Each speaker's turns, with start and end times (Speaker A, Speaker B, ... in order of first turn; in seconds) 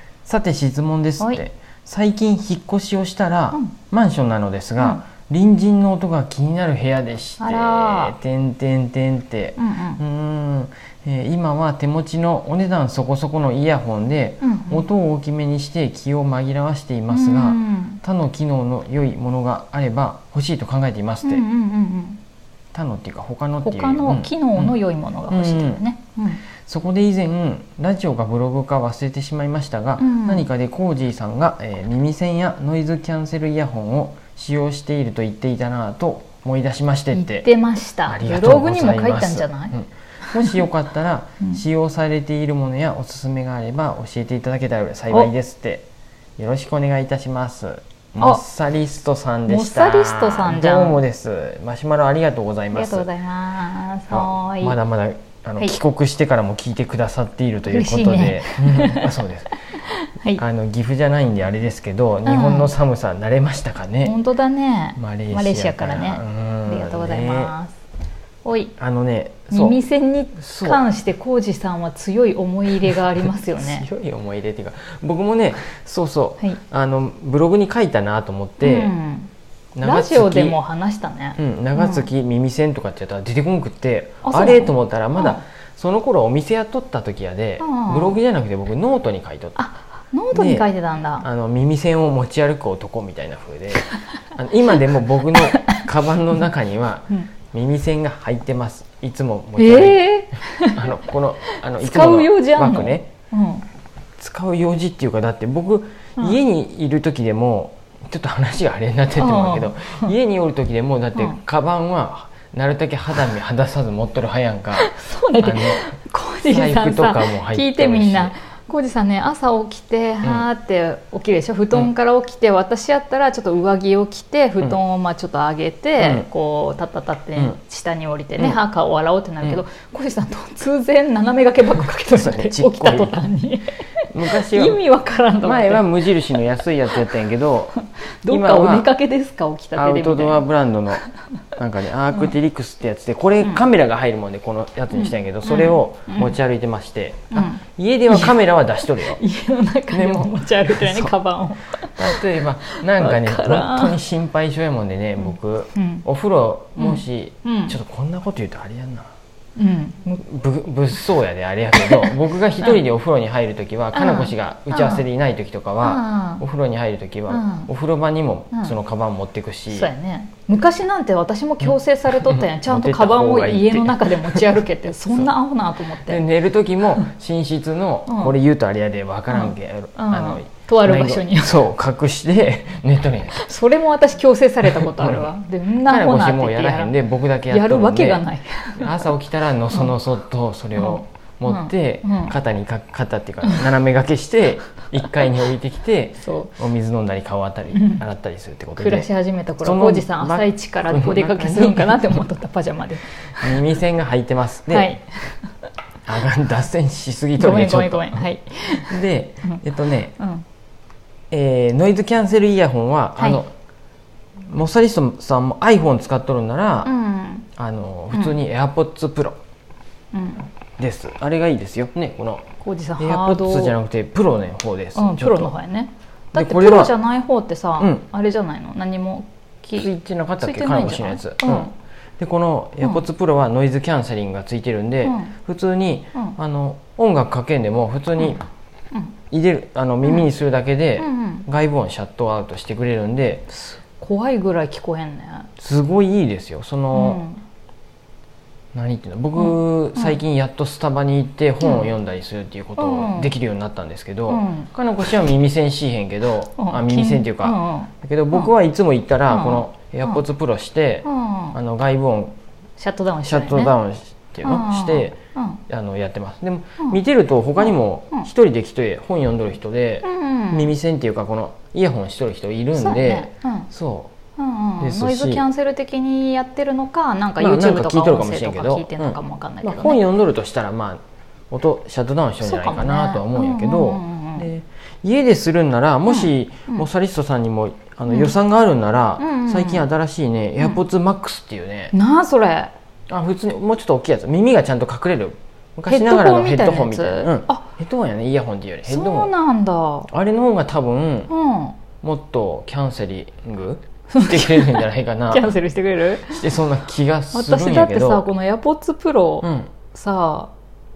Speaker A: 0.2-21.4, 22.7-24.8, 25.3-25.8, 26.6-37.5, 38.0-45.9, 46.4-53.1, 54.1-59.6, 60.3-64.1, 64.9-67.5, 68.8-69.8, 70.4-70.8, 73.6-78.9, 79.7-80.6, 81.3-89.6, 90.3-90.7, 91.2-103.1, 104.2-115.9, 116.5-118.3, 126.0-126.3, 132.1-133.2, 134.1-134.8, 135.4-137.7, 138.3-138.9, 139.8-149.2, 149.9-151.1, 151.9-159.1, 160.2-169.9, 172.2-174.6, 176.0-183.5, 184.6-185.2, 185.8-199.1, 199.6-202.2, 203.4-204.9, 206.0-210.2, 211.3-213.5, 214.4-216.9, 217.6-219.4, 220.8-222.4, 223.0-225.5, 226.3-226.9, 227.8-228.0, 229.8-238.4, 239.3-243.5, 245.6-247.2, 248.7-262.3, 263.2-265.2, 265.7-274.1, 274.8-275.4, 277.4-291.9, 293.1-299.3, 300.1-301.3, 302.0-305.5, 306.3-308.2, 309.4-309.7
Speaker B: 7.4-8.2, 9.6-10.0, 14.4-14.9, 17.1-18.0, 21.2-22.2, 23.6-26.4, 30.0-30.5, 37.1-39.8, 40.3-40.6, 49.5-51.0, 52.7-54.8, 57.6-59.2, 59.7-60.4, 62.2-62.7, 64.0-67.8, 68.4-68.7, 69.5-73.8, 78.6-79.3, 79.8-82.1, 84.2-85.4, 87.6-88.2, 89.6-91.2, 99.6-103.7, 109.2-110.1, 114.8-133.7, 134.3-136.4, 137.8-140.4, 144.9-146.3, 147.3-154.0, 155.7-156.0, 156.8-157.8, 159.6-160.2, 161.8-162.7, 163.9-165.0, 165.8-166.4, 167.3-167.7, 169.7-176.2, 178.1-178.4, 179.3-181.6, 183.3-187.0, 187.5-189.1, 190.8-192.3, 193.4-193.7, 196.2-196.6, 197.7-198.0, 198.8-203.6, 204.7-205.4, 207.4-209.6, 210.2-210.4, 213.2-213.4, 216.8-217.5, 220.1-220.5, 222.6-223.8, 224.9-231.7, 235.0-235.3, 241.0-241.5, 243.5-245.5, 246.9-247.4, 249.3-250.2, 251.6-251.9, 252.8-253.3, 254.3-254.7, 256.6-258.5, 259.3-260.2, 261.0-261.6, 262.8-263.8, 264.4-265.6, 267.6-268.3, 270.0-270.7, 272.7-273.7, 274.4-280.0, 282.4-284.5, 286.1-286.9, 289.2-289.9, 291.9-292.7, 295.9-297.6, 298.9-300.1, 301.3-301.8, 304.1-306.5, 307.3-310.5